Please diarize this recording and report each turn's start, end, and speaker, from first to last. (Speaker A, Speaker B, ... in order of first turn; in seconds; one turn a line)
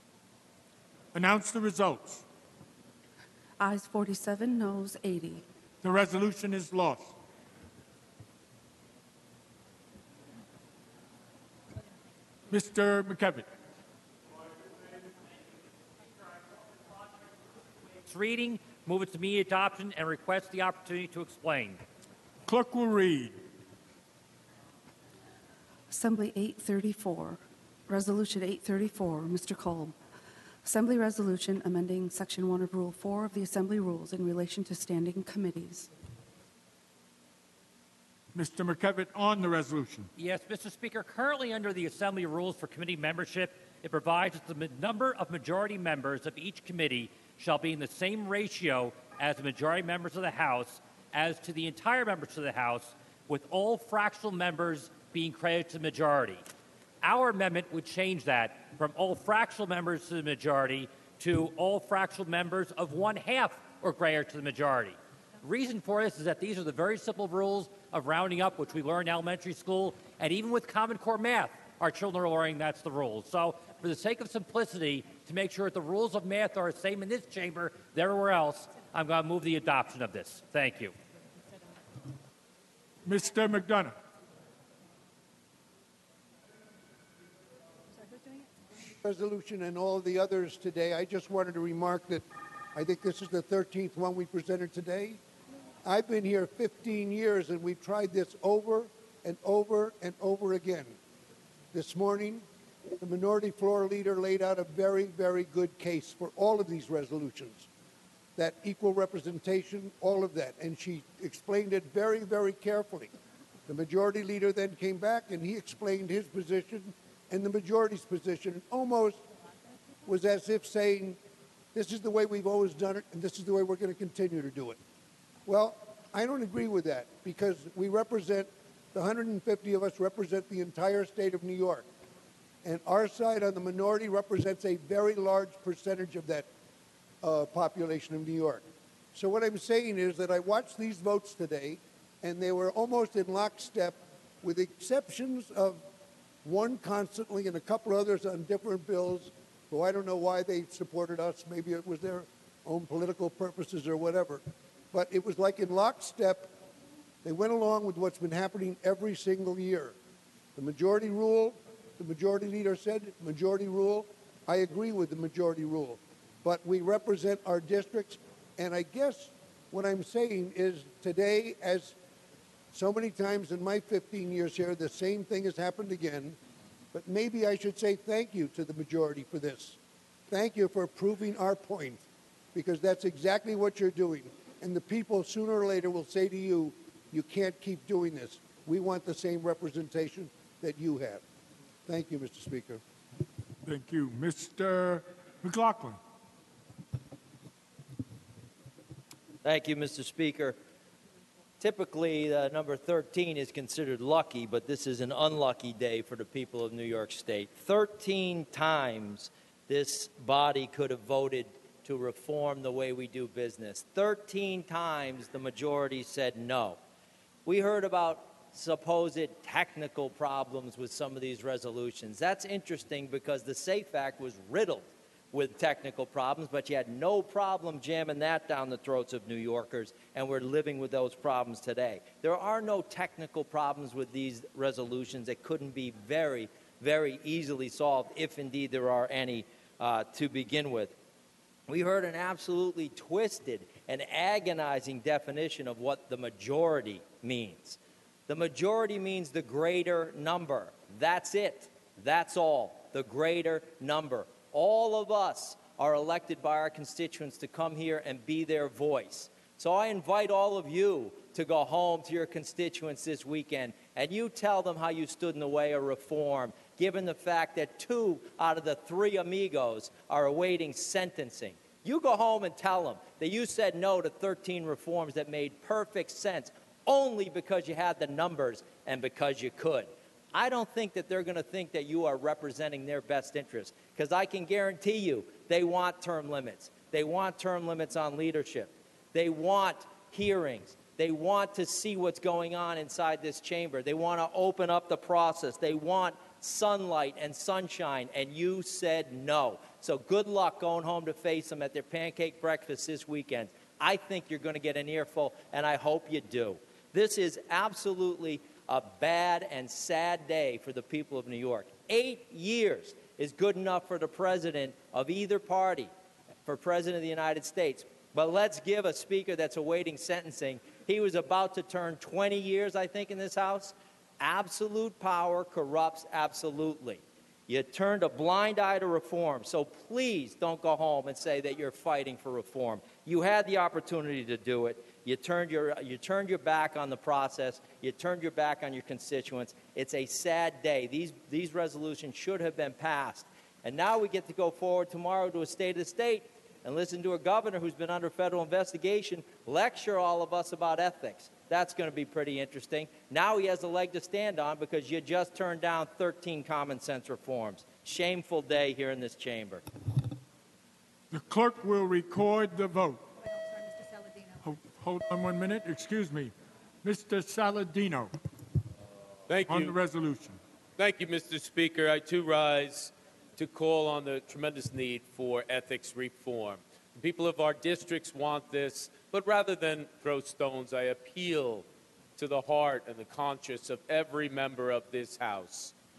Speaker A: 1.1-2.2
Speaker B: 3.6-5.4
Speaker A: 5.8-7.1
Speaker A: 12.5-13.5
Speaker C: 18.0-21.8
Speaker A: 22.4-23.4
Speaker B: 25.9-29.9
Speaker B: 30.6-35.9
Speaker A: 38.3-40.1
Speaker C: 40.1-56.5
Speaker C: 57.0-81.0
Speaker A: 83.0-84.0
Speaker D: 87.9-88.6
Speaker E: 88.9-95.2
Speaker E: 95.8-101.0
Speaker E: 101.7-102.5
Speaker E: 103.0-107.7
Speaker E: 108.4-113.1
Speaker E: 113.7-119.2
Speaker E: 120.0-121.2
Speaker E: 121.7-124.8
Speaker E: 125.5-131.9
Speaker E: 132.6-136.5
Speaker E: 137.2-145.9
Speaker E: 146.4-156.5
Speaker E: 157.2-160.0
Speaker E: 160.6-171.9
Speaker E: 172.7-176.4
Speaker E: 176.9-179.8
Speaker E: 180.3-191.2
Speaker E: 191.8-192.8
Speaker A: 193.6-196.0
Speaker F: 199.4-200.6
Speaker F: 201.6-216.8
Speaker F: 217.4-240.9
Speaker F: 241.7-315.9
Speaker F: 316.4-359.6
Speaker A: 361.1-363.0
Speaker D: 363.2-364.4
Speaker A: 364.4-366.3
Speaker A: 366.8-368.1
Speaker G: 369.3-369.8
Speaker A: 369.5-370.4
Speaker G: 370.8-385.7